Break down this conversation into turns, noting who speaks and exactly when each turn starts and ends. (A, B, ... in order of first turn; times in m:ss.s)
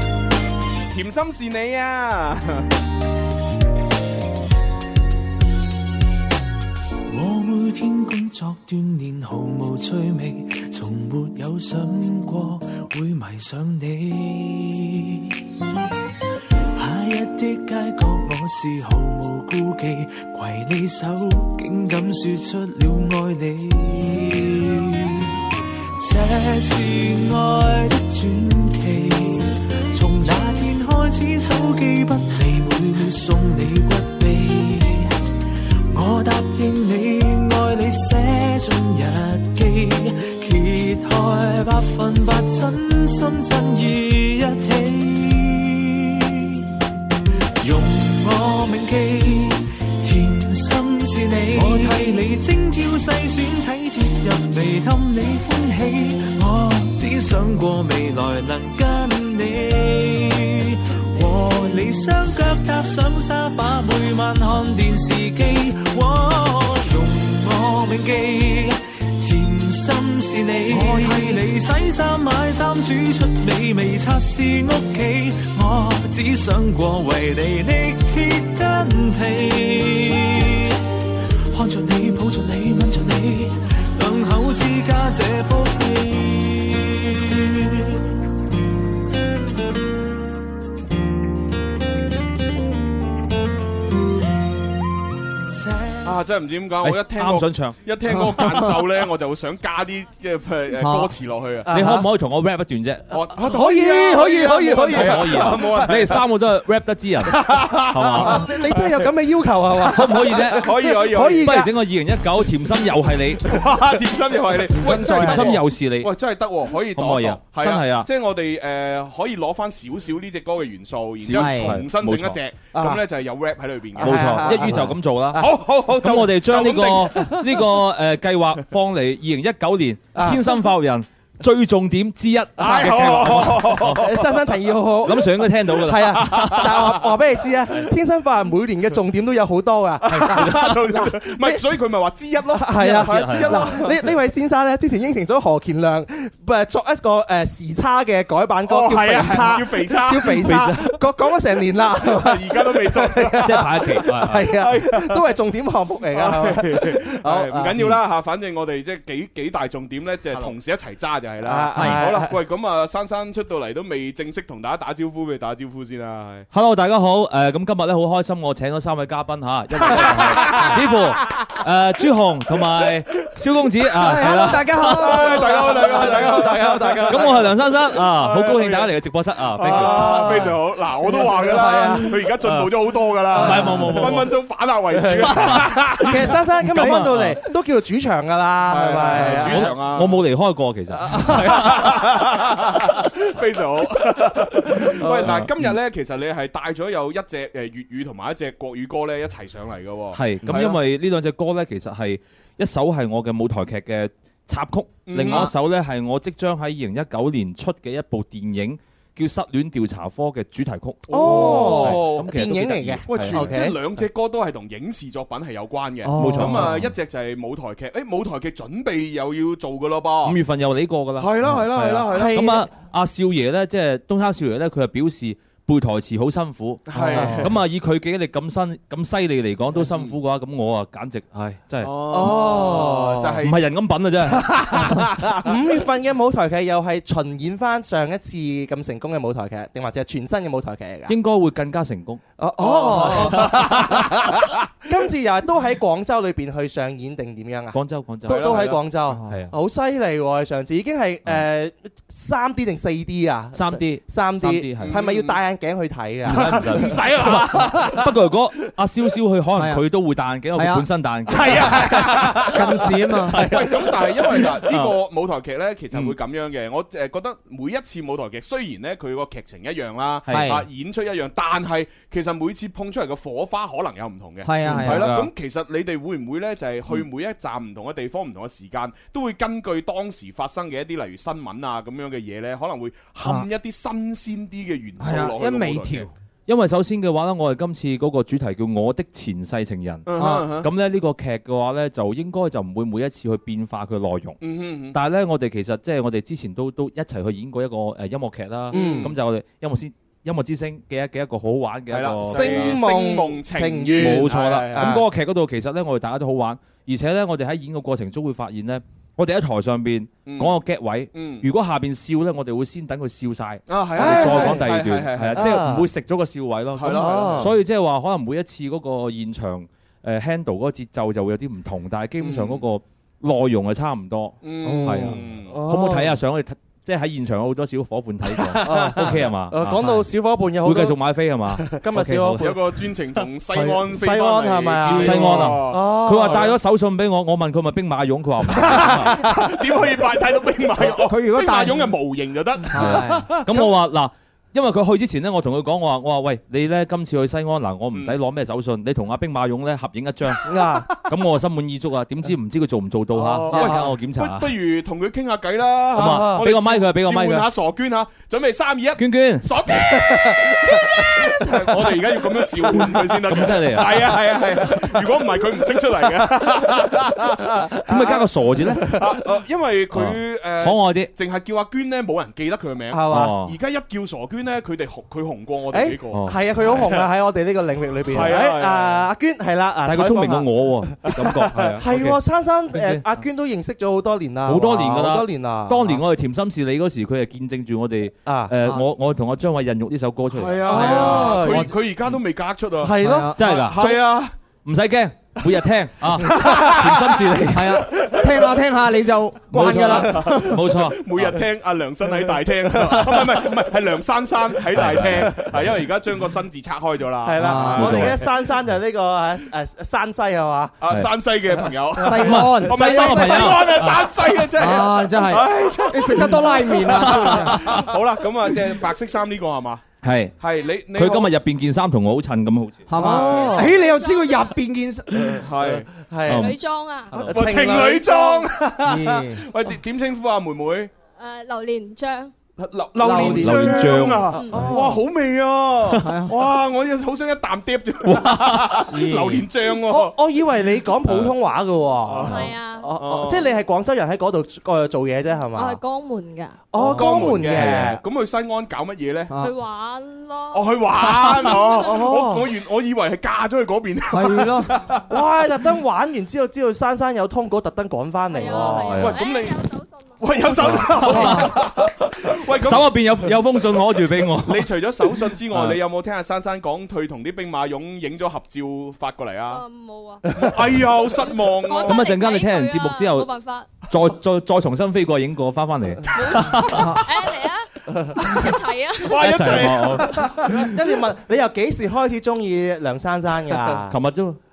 0:00.9-0:02.7 A
0:07.1-0:15.4 B
0:16.8-0:25.4 B
0:26.0-0:35.2 B
0:35.9-0:46.7 B
0:47.6-1:20.8 B
1:21.5-1:28.0 B
1:35.5-1:36.2 B
1:36.0-1:41.7 A
1:36.8-1:37.8 C
1:40.8-1:41.1 D
1:41.7-1:42.0 E
1:41.7-1:43.0 C
1:43.1-1:46.2 A
1:43.3-1:46.0 E
1:44.9-1:48.5 C
1:47.3-1:49.1 A
1:48.1-1:51.7 E
1:49.9-1:50.7 C
1:50.1-1:51.7 A
1:51.3-1:53.4 C
1:53.4-2:04.8 A
1:54.7-1:55.6 D
1:55.1-1:56.1 C
1:56.9-1:58.1 C
2:01.2-2:02.4 C
2:01.3-2:01.8 D
2:02.7-2:03.0 E
2:04.0-2:04.9 E
2:04.0-2:14.0 C
2:05.3-2:07.6 A
2:10.1-2:10.4 E
2:12.6-2:14.4 A
2:13.8-2:21.6 E
2:15.0-2:16.8 C
2:15.8-2:17.0 A
2:20.0-2:24.0 A
2:20.1-2:20.7 C
2:22.5-2:37.7 E
2:22.8-2:23.8 C
2:28.7-2:30.6 A
2:30.3-2:30.9 C
2:32.0-2:35.2 A
2:33.4-2:34.5 C
2:36.1-2:46.5 A
2:41.4-2:42.3 E
2:41.7-2:42.0 D
2:46.5-2:54.9 C
2:49.8-2:50.8 A
2:54.0-2:55.4 D
2:54.2-2:58.9 A
2:54.3-2:57.4 E
2:57.1-3:00.3 C
2:59.5-3:07.1 A
2:59.6-3:02.3 E
3:02.4-3:02.7 C
3:03.3-3:04.3 C
3:03.4-3:04.0 E
3:05.1-3:09.7 E
3:05.2-3:07.4 C
3:08.7-3:10.2 A
3:09.3-3:11.8 C
3:11.0-3:12.2 E
3:11.1-3:20.8 A
3:15.0-3:15.4 E
3:15.3-3:15.7 C
3:20.1-3:33.6 C
3:25.1-3:25.5 A
3:31.1-3:33.8 E
3:31.1-3:40.4 A
3:36.0-3:36.5 D
3:36.1-3:36.9 C
3:40.2-3:52.5 C
3:41.2-3:42.6 A
3:42.1-3:42.7 E
3:46.9-3:47.6 A
3:47.0-3:47.5 E
3:49.7-3:50.2 A
3:51.8-3:53.7 A
3:52.1-3:53.4 E
3:53.4-3:54.8 C
3:54.6-3:55.4 A
3:55.4-4:01.1 E
4:01.1-4:02.2 C
4:02.4-4:17.1 E
4:02.6-4:04.5 A
4:03.1-4:03.7 C
4:07.7-4:09.5 C
4:08.3-4:08.8 A
4:13.5-4:15.0 C
4:14.8-4:15.4 A
4:16.2-4:18.3 A
4:16.2-4:22.4 C
4:19.6-4:19.8 D
4:20.5-4:20.8 D
4:21.3-4:46.1 A
4:22.4-4:23.4 D
4:23.3-4:25.0 C
4:30.3-4:30.6 D
4:34.4-4:35.1 D
4:34.6-4:35.3 C
4:45.0-4:46.1 D
4:46.5-4:54.4 C
4:50.1-4:50.7 A
4:50.2-4:50.5 D
4:54.4-4:55.0 A
4:54.9-5:02.7 C
4:58.7-4:59.1 E
4:58.7-4:59.2 A
5:01.9-5:05.0 A
5:02.3-5:05.0 E
5:04.0-5:30.0 C
5:10.2-5:10.6 A
5:11.1-5:11.5 A
5:13.7-5:15.5 A
5:14.0-5:14.7 E
5:15.3-5:15.9 E
5:16.8-5:17.5 A
5:16.9-5:17.5 E
5:22.2-5:22.6 A
5:24.4-5:25.6 A
5:24.6-5:24.9 D
5:25.5-5:26.2 E
5:28.5-5:31.0 E
5:30.6-5:32.5 C
5:31.5-5:32.8 E
5:32.4-5:36.5 A
5:33.5-5:33.8 D
5:33.9-5:36.5 E
5:34.9-5:39.3 C
5:38.5-5:43.0 A
5:40.8-5:41.9 D
5:42.7-5:43.3 D
5:42.8-5:54.5 C
5:50.4-5:50.9 E
5:53.1-6:08.2 A
5:53.5-5:53.9 E
5:55.9-5:57.5 C
5:56.0-5:56.4 E
5:59.0-5:59.5 C
6:00.0-6:01.8 E
6:02.8-6:04.1 C
6:06.2-6:07.0 E
6:07.9-6:08.9 C
6:07.9-6:09.1 E
6:08.9-6:17.0 A
6:09.9-6:11.1 C
6:12.9-6:13.4 E
6:13.1-6:13.6 C
6:15.7-6:26.0 E
6:16.1-6:16.4 C
6:18.1-6:19.1 A
6:19.8-6:22.2 C
6:21.1-6:21.8 A
6:22.7-6:23.0 C
6:24.4-6:30.8 C
6:28.2-6:28.5 E
6:30.3-6:34.3 A
6:30.6-6:31.7 E
6:30.7-6:31.7 D
6:32.8-6:34.0 E
6:33.0-6:33.4 D
6:33.4-6:33.9 C
6:34.6-6:37.8 C
6:36.3-6:37.3 A
6:36.4-6:36.6 E
6:37.5-6:40.5 D
6:39.5-6:41.3 C
6:39.9-6:48.3 A
6:42.4-6:43.3 E
6:44.7-6:45.5 C
6:47.2-6:50.8 E
6:47.4-6:48.0 D
6:47.7-6:48.2 C
6:50.8-6:59.8 A
6:52.0-6:53.5 D
6:52.2-6:54.2 C
6:54.6-6:57.6 D
6:57.0-6:57.9 C
7:00.0-7:00.4 C
7:00.4-7:01.3 A
7:00.9-7:02.9 C
7:02.9-7:05.4 D
7:03.0-7:03.8 E
7:03.6-7:04.6 F
7:05.2-7:06.5 E
7:05.3-7:05.9 A
7:06.2-7:06.6 C
7:06.3-7:07.3 F
7:07.2-7:08.5 E
7:07.2-7:10.9 A
7:08.1-7:08.4 F
7:08.8-7:09.4 D
7:11.2-7:12.3 F
7:12.6-7:20.2 A
7:13.0-7:15.0 E
7:13.2-7:14.4 C
7:16.0-7:16.3 D
7:18.0-7:18.8 C
7:18.9-7:19.5 D
7:19.7-7:25.8 E
7:21.0-7:21.4 A
7:22.0-7:23.5 A
7:22.3-7:22.9 F
7:25.5-7:26.6 F
7:26.7-7:28.0 E
7:26.8-7:29.3 A
7:26.8-7:27.1 D
7:27.5-7:27.8 C
7:29.4-7:32.0 F
7:30.5-7:35.0 A
7:31.5-7:32.5 E
7:34.1-7:34.7 D
7:35.1-7:39.1 E
7:38.3-7:40.3 F
7:38.8-7:39.2 C
7:39.0-7:39.6 A
7:40.2-7:49.6 A
7:40.6-7:41.5 C
7:41.0-7:41.4 D
7:42.5-7:45.8 C
7:49.5-7:50.5 F
7:50.3-7:52.1 A
7:51.0-7:53.8 F
7:51.8-7:53.3 C
7:53.9-7:56.9 C
7:56.1-7:59.3 F
7:56.7-7:57.0 D
7:59.0-8:00.3 A
7:59.2-8:00.8 C
8:00.2-8:03.9 E
8:03.9-8:04.4 C